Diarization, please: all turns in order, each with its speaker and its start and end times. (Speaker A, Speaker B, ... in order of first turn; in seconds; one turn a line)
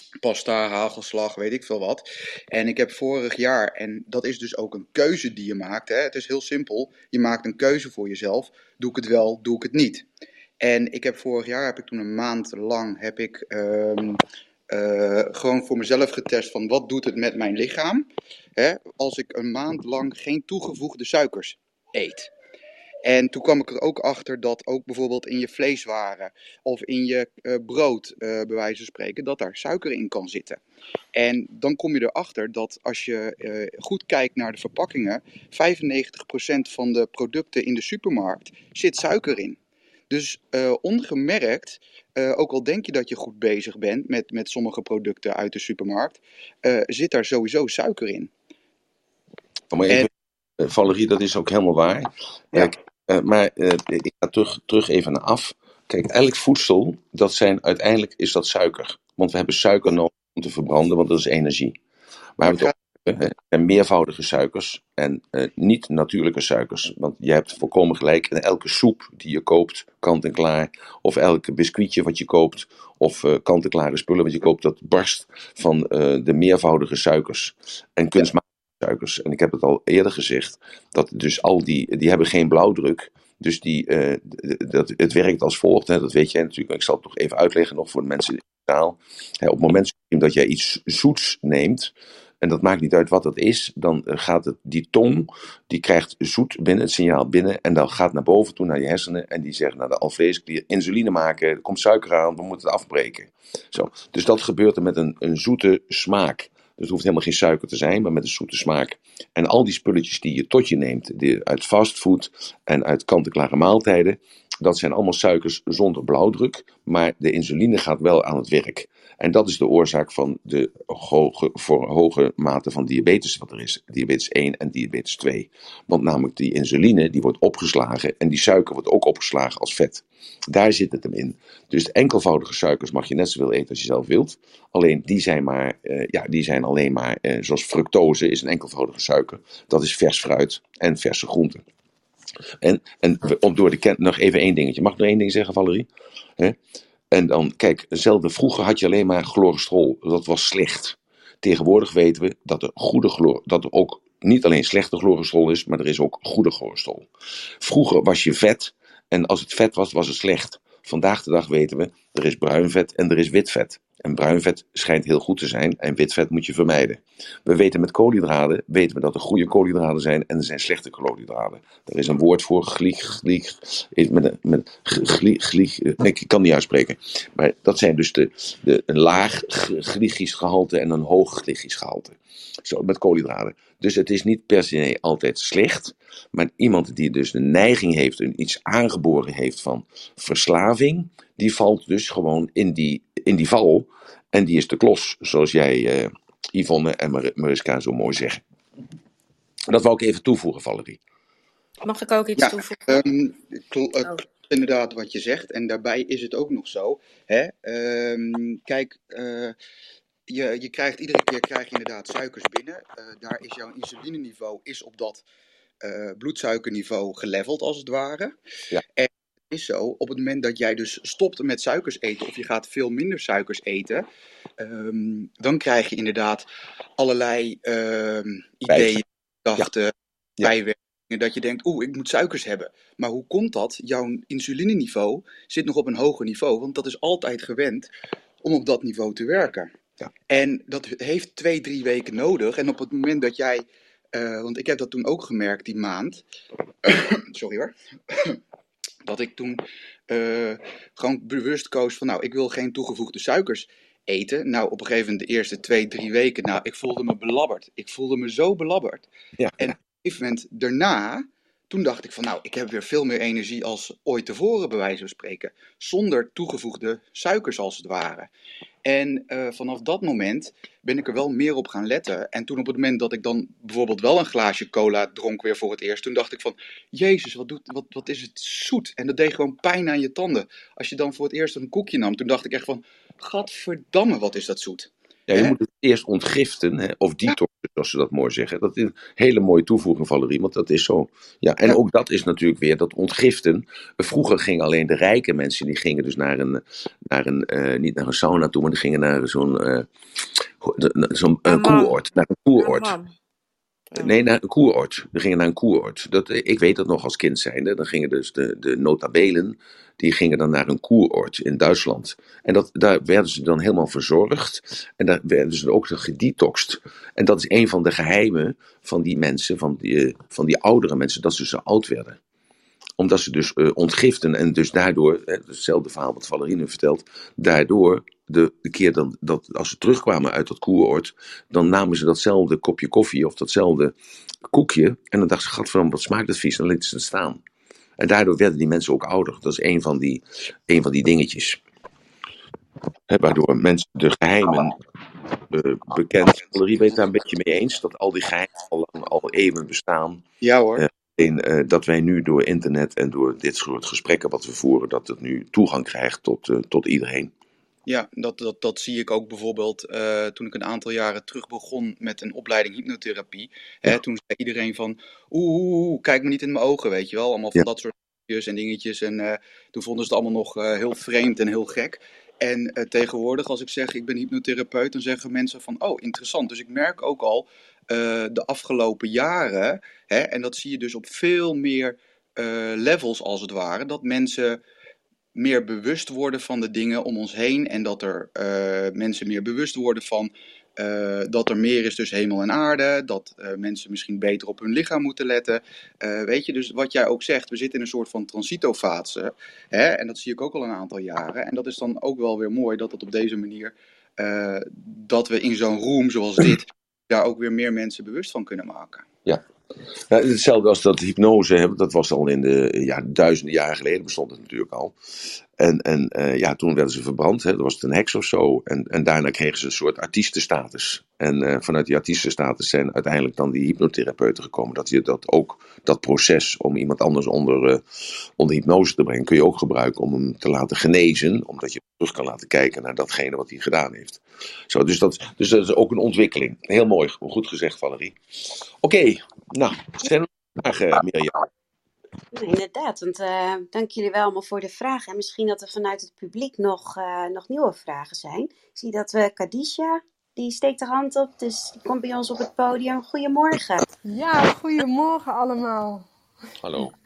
Speaker A: 0.2-10.1
Speaker A: 10.6-22.3
Speaker A: 23.0-30.6
Speaker A: 31.1-39.6
Speaker A: 40.1-48.3
Speaker B: 49.7-61.8
Speaker B: 62.4-141.6
Speaker A: 62.4-62.7
Speaker B: 142.6-146.6
Speaker B: 147.1-157.1
Speaker B: 157.6-198.4
Speaker B: 199.7-201.0
Speaker C: 201.8-202.9
Speaker A: 202.4-209.5
Speaker A: 210.3-215.2
Speaker A: 215.8-218.3
Speaker A: 219.0-224.1
Speaker A: 224.6-237.9
Speaker B: 228.7-229.0
Speaker A: 238.4-239.7
Speaker A: 240.3-246.2
Speaker A: 246.8-248.4
Speaker A: 249.1-259.1
Speaker B: 259.4-259.7
Speaker A: 259.6-268.3
Speaker A: 268.8-285.6
Speaker B: 285.3-299.9
Speaker B: 300.6-302.9
Speaker C: 301.5-302.0
Speaker C: 302.6-303.1
Speaker B: 304.0-322.2
Speaker B: 323.0-333.9
Speaker B: 334.5-337.4
Speaker B: 338.0-341.6
Speaker B: 343.1-344.8
Speaker B: 345.5-350.2
Speaker A: 350.4-350.8
Speaker B: 350.8-357.3
Speaker A: 357.9-384.6
Speaker A: 385.3-409.0
Speaker B: 410.1-414.9
Speaker B: 415.6-427.8
Speaker B: 428.4-438.1
Speaker B: 438.8-441.5
Speaker D: 442.3-453.9
Speaker E: 454.0-456.1
Speaker B: 456.6-456.9